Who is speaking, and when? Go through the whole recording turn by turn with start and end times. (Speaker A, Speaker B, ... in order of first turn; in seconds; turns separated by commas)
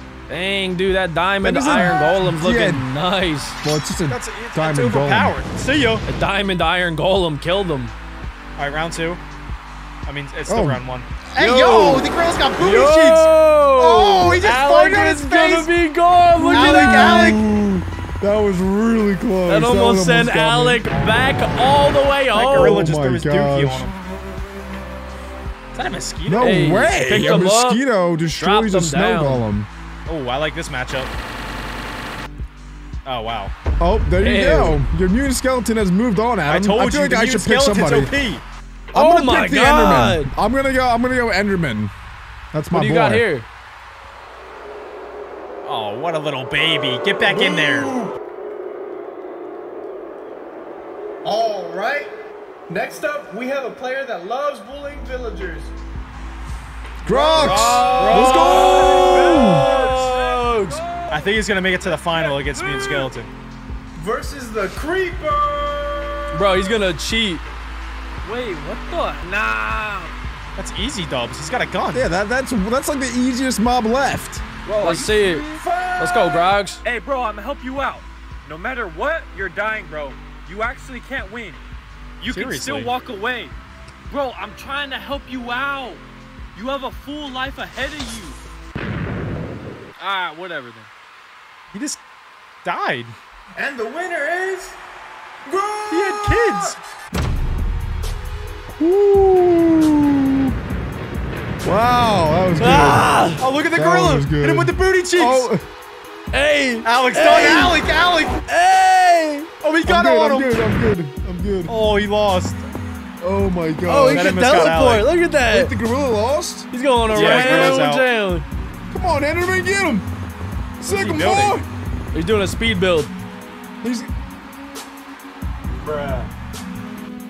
Speaker A: 0.3-3.6, Speaker B: 1.4-2.8, Speaker B: 3.6-5.4, Speaker C: 4.1-6.0, Speaker A: 6.1-7.9, Speaker C: 8.6-9.2, Speaker C: 10.1-15.7, Speaker B: 10.5-10.8, Speaker A: 11.4-17.4, Speaker B: 16.4-21.2, Speaker C: 16.4-17.4, Speaker A: 19.5-22.9, Speaker C: 22.3-23.9, Speaker B: 22.4-23.9, Speaker C: 25.7-26.5, Speaker B: 26.3-29.7, Speaker A: 26.4-29.4, Speaker C: 30.1-31.1, Speaker C: 33.0-33.5, Speaker B: 33.8-38.1, Speaker A: 34.2-34.8, Speaker C: 36.5-38.4, Speaker B: 38.9-41.9, Speaker A: 38.9-40.3, Speaker B: 42.5-43.2, Speaker A: 42.7-43.5, Speaker C: 45.6-47.9, Speaker D: 47.3-48.1, Speaker D: 51.2-52.1, Speaker D: 52.7-55.7, Speaker B: 57.0-59.7, Speaker C: 57.1-58.8, Speaker A: 57.4-60.8, Speaker E: 57.9-63.1, Speaker D: 59.5-60.1, Speaker C: 61.1-63.3, Speaker D: 64.0-66.4, Speaker A: 66.3-67.4, Speaker E: 68.2-70.1, Speaker C: 70.5-72.1, Speaker B: 71.9-74.4, Speaker E: 74.6-76.2, Speaker A: 74.8-76.8, Speaker D: 75.6-76.4, Speaker E: 76.8-81.6, Speaker E: 82.2-83.5, Speaker C: 82.3-82.9, Speaker E: 84.1-86.0, Speaker E: 86.5-88.4, Speaker E: 90.0-90.9, Speaker C: 91.7-92.0, Speaker C: 92.6-93.2, Speaker D: 93.5-94.8, Speaker D: 95.5-96.8, Speaker C: 95.9-96.8, Speaker B: 98.8-100.5, Speaker B: 101.6-105.6, Speaker A: 102.6-103.4, Speaker C: 102.6-105.5, Speaker A: 106.3-107.8, Speaker C: 106.8-108.4, Speaker A: 108.5-109.5, Speaker C: 109.6-110.6, Speaker B: 109.8-111.8, Speaker C: 111.7-112.6, Speaker B: 113.2-114.4, Speaker A: 113.8-115.7, Speaker C: 114.1-115.1, Speaker B: 115.5-117.8, Speaker A: 116.7-118.5, Speaker C: 117.1-118.1, Speaker B: 118.9-120.0, Speaker B: 120.8-121.6, Speaker C: 120.8-121.6, Speaker A: 122.1-123.1, Speaker B: 123.8-124.1, Speaker C: 125.9-126.2